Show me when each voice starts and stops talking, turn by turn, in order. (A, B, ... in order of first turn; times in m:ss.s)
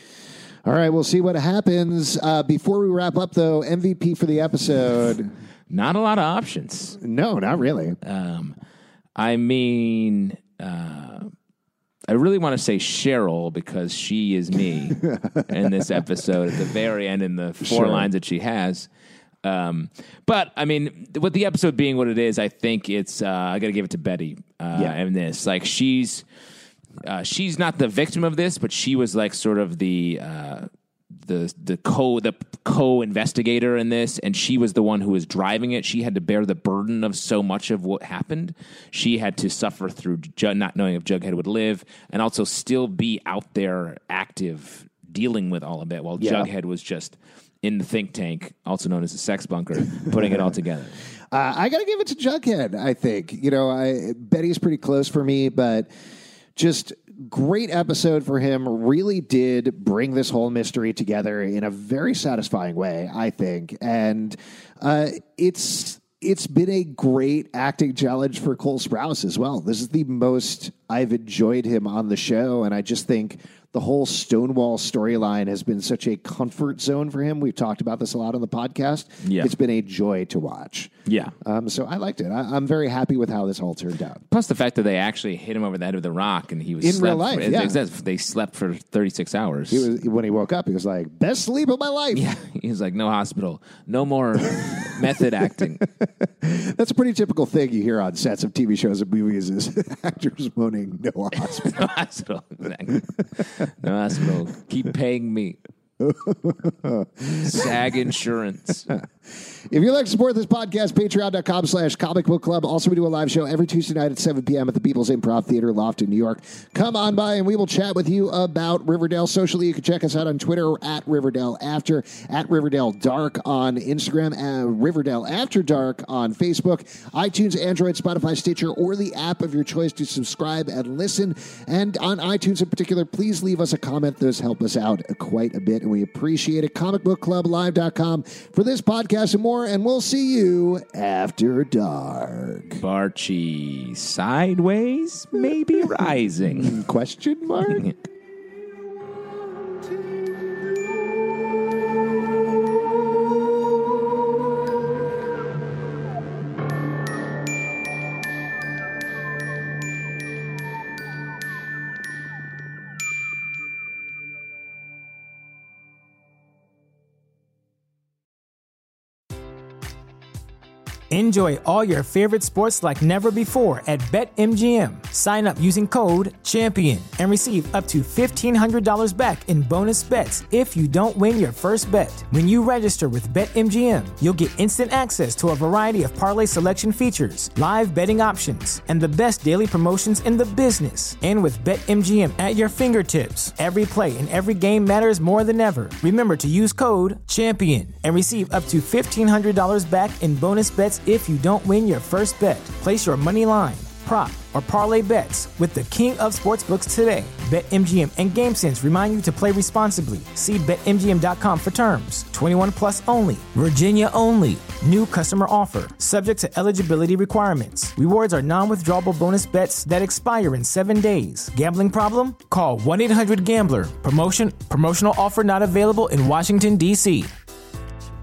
0:00.6-0:05.3 A
0:05.7-0:07.0 B
0:07.0-0:08.0 A
0:08.0-0:08.5 B
0:09.2-0:11.3 B
0:12.1-0:18.9 B
0:17.6-0:18.1 A
0:19.4-0:26.2 B
0:27.0-0:30.7 B
0:31.2-0:51.0 B
0:46.2-0:46.5 A
0:50.0-0:50.5 A
0:51.3-0:55.9 A
0:56.6-1:24.2 A
1:19.2-1:19.5 B
1:21.1-1:21.3 B
1:24.3-1:29.9 B
1:26.8-1:27.8 A
1:29.7-1:32.3 A
1:32.1-1:35.8 B
1:35.8-1:41.9 A
1:41.4-1:45.6 B
1:46.0-1:47.6 A
1:47.4-1:48.9 B
1:49.7-2:22.8 A
2:22.8-2:26.8 B
2:26.5-2:27.9 A
2:27.7-2:27.9 B
2:51.1-3:47.3 C